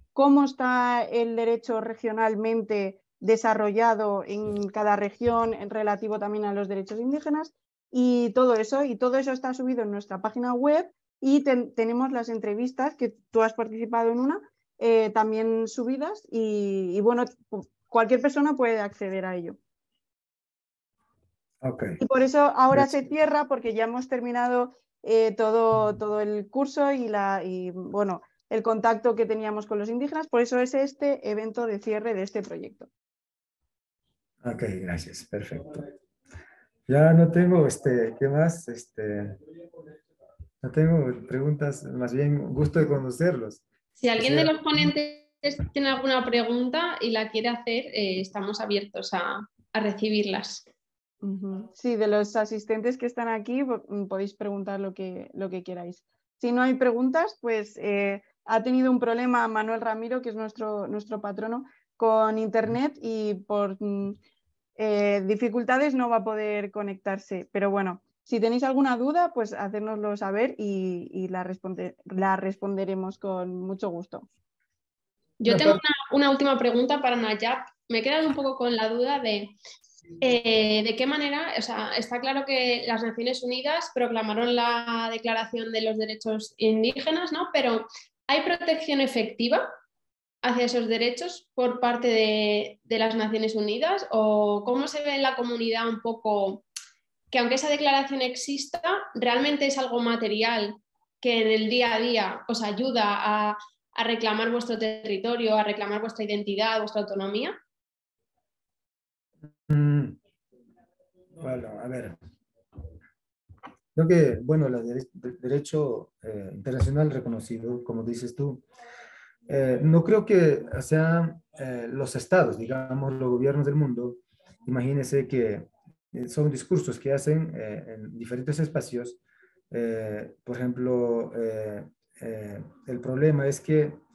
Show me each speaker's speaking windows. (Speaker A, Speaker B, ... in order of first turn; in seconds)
Speaker A: 0.1-19.6, 22.0-32.9, 51.2-64.2, 64.8-74.3
Speaker B: 21.6-22.0, 22.7-23.0, 34.4-35.9, 36.9-39.4, 40.6-43.6, 44.2-44.9, 75.5-75.8, 109.7-110.2, 111.4-112.2, 114.0-118.6, 119.5-129.2, 129.7-134.0
Speaker C: 44.0-50.7, 75.4-79.5, 80.2-89.7, 90.4-96.6, 97.3-107.6